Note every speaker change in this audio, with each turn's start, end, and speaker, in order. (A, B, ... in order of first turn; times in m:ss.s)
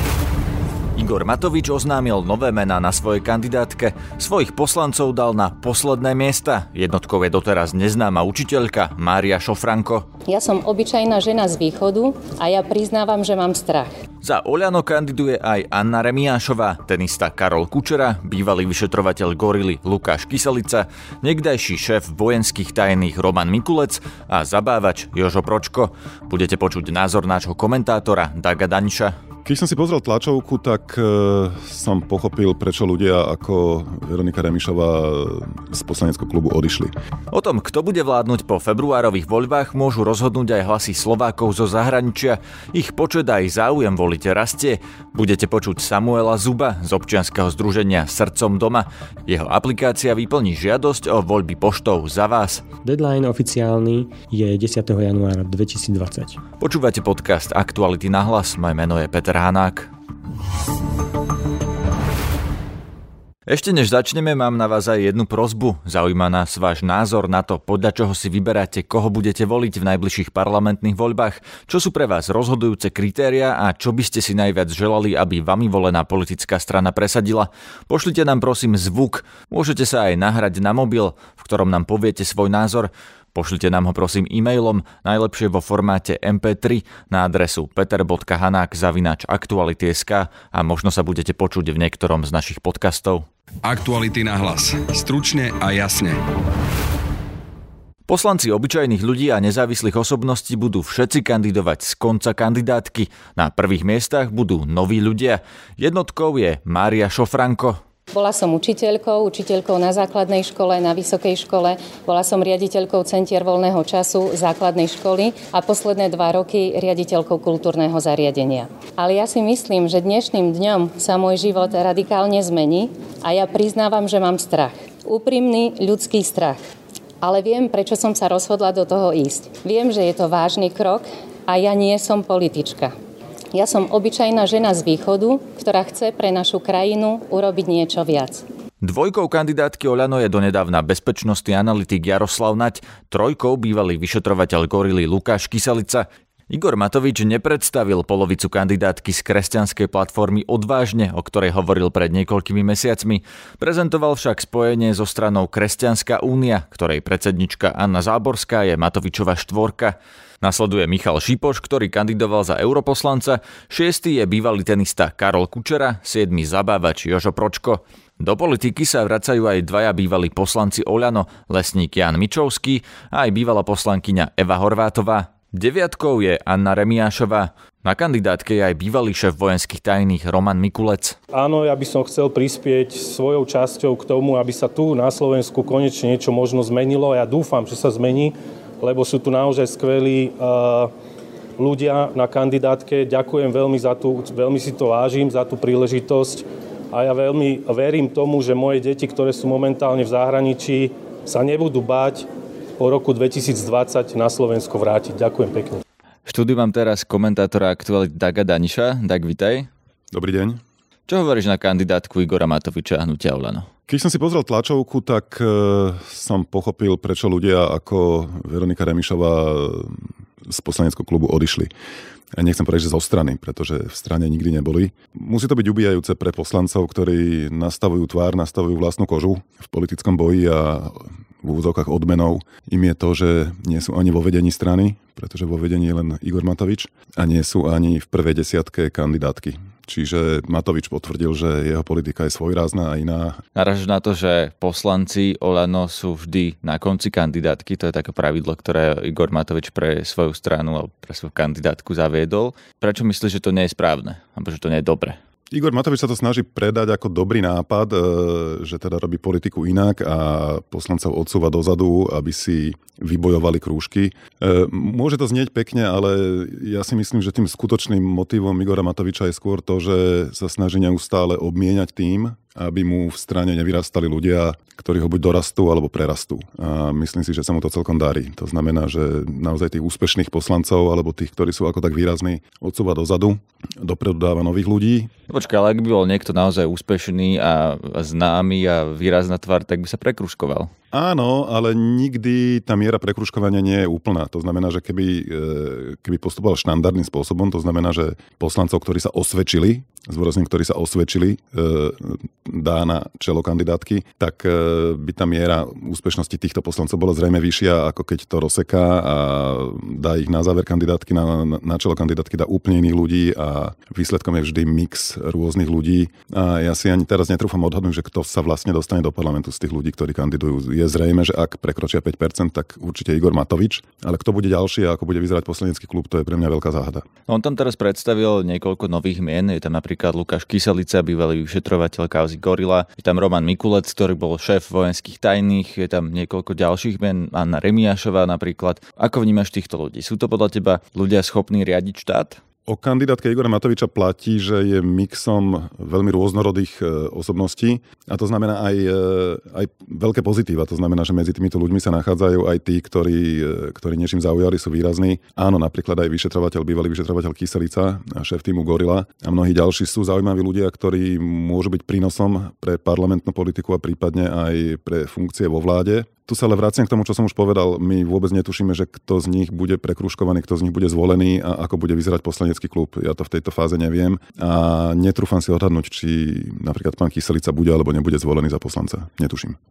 0:01.0-0:10.1 A
0:10.3-0:13.9 B
0:14.2-0:29.2 A
0:29.4-0:36.9 C
0:37.3-0:52.6 A
0:52.8-0:56.4 D
0:56.6-0:59.9 A
1:03.5-1:33.3 A
1:33.6-1:36.2 E
1:38.1-1:47.8 A
1:48.1-2:06.6 B
2:07.2-2:12.9 B
2:13.5-2:18.4 B
2:18.8-3:01.2 A
3:01.3-3:10.9 F
3:11.6-3:22.3 F
3:22.8-3:25.8 F
3:26.3-3:29.7 A
3:30.1-3:30.6 C
3:31.1-3:33.7 A
3:33.9-3:41.7 C
3:42.3-4:03.4 C
4:03.6-4:15.2 A
4:15.5-4:45.1 C
4:45.3-4:50.7 A
4:50.9-5:27.0 C
5:27.3-5:42.4 A
5:42.7-6:19.6 C